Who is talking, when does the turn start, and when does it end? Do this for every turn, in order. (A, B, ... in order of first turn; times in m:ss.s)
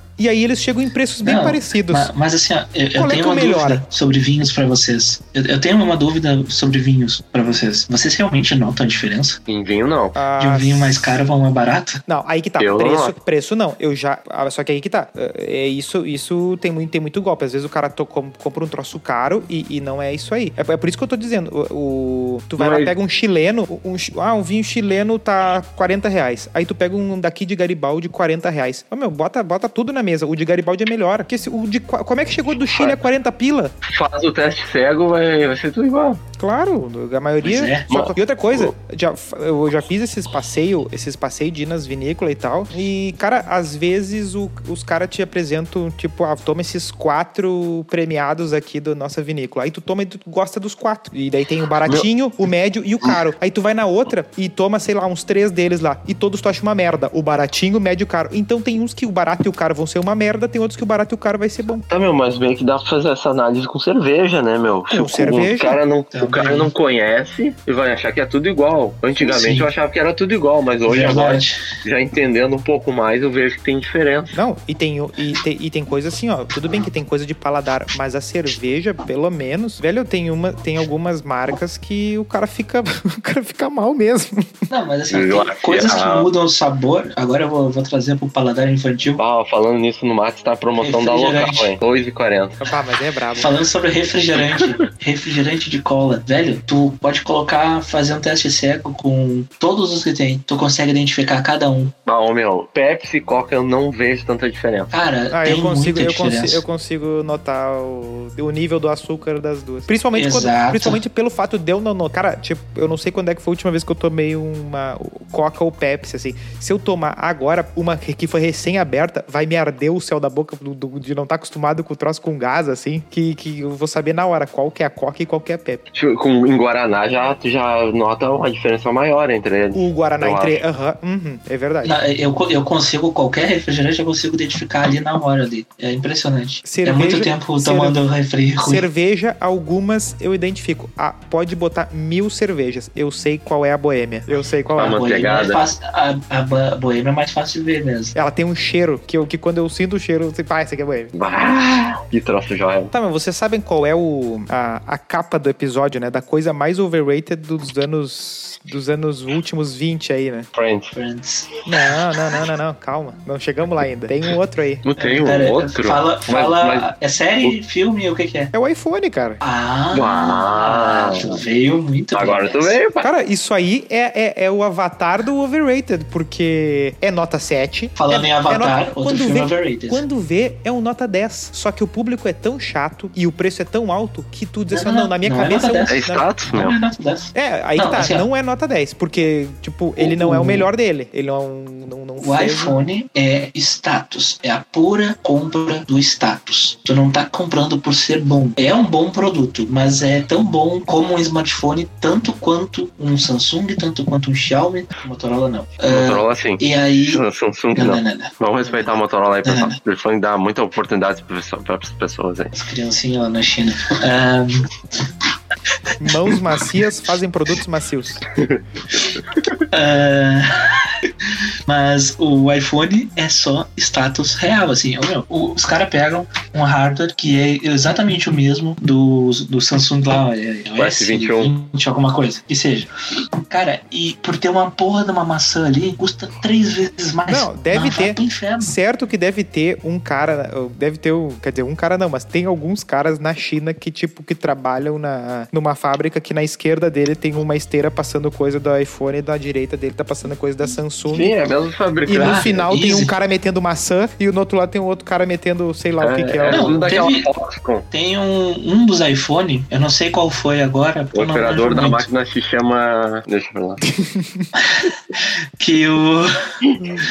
0:00.2-0:02.1 A
0:01.2-0:09.4 B
0:03.0-0:03.8 A
0:09.5-0:10.2 C
0:10.1-0:11.0 A
0:10.4-0:12.0 B
0:12.1-0:33.7 A
0:12.6-0:13.1 C
0:22.6-0:22.9 C
0:32.7-0:33.0 C
0:33.8-0:36.2 C
0:36.4-1:01.8 A
0:37.4-0:37.9 B
0:37.9-0:38.7 C
1:01.9-1:14.4 C
1:04.9-1:05.8 A
1:06.1-1:06.7 B
1:09.2-1:09.7 B
1:10.8-1:11.6 B
1:14.3-1:24.7 A
1:24.7-1:29.2 B
1:25.1-1:26.3 C
1:29.2-1:32.7 C
1:30.8-1:31.7 B
1:32.6-1:33.5 A
1:33.3-1:41.9 B
1:42.0-1:44.9 C
1:44.9-1:46.6 B
1:45.3-2:05.8 A
1:50.1-1:51.0 B
2:05.9-2:10.6 C
2:09.7-2:12.0 A
2:11.8-2:18.8 B
2:16.6-2:18.0 A
2:18.6-2:25.0 A
2:24.7-2:25.6 C
2:24.8-2:28.1 B
2:28.1-2:31.1 A
2:31.1-2:32.9 C
2:32.9-2:40.5 A
2:40.5-2:40.9 C
2:40.9-2:41.5 B
2:41.6-2:44.8 A
2:44.8-2:46.9 C
2:45.0-2:48.5 B
2:48.5-2:49.4 A
2:49.4-2:52.8 B
2:49.9-2:51.4 C
2:52.1-2:53.1 C
2:53.0-3:06.3 A
2:58.0-3:00.0 B
3:04.7-3:08.2 B
3:05.9-3:06.8 C
3:07.3-3:12.8 A
3:10.0-3:10.6 B
3:12.2-3:27.2 B
3:25.8-3:32.5 C
3:27.7-3:29.7 B
3:32.5-3:34.7 B
3:36.0-3:38.2 A
3:38.3-3:38.6 C
3:39.7-3:41.1 B
3:41.7-3:52.9 B
3:50.8-3:51.5 C
3:53.5-3:58.7 B
3:57.3-4:11.3 A
4:11.1-4:12.5 C
4:12.0-4:16.9 A
4:12.1-4:13.1 B
4:16.0-4:17.8 C
4:16.4-4:17.3 B
4:17.9-4:22.1 B
4:21.1-4:23.8 C
4:23.9-4:24.5 A
4:24.5-4:26.3 B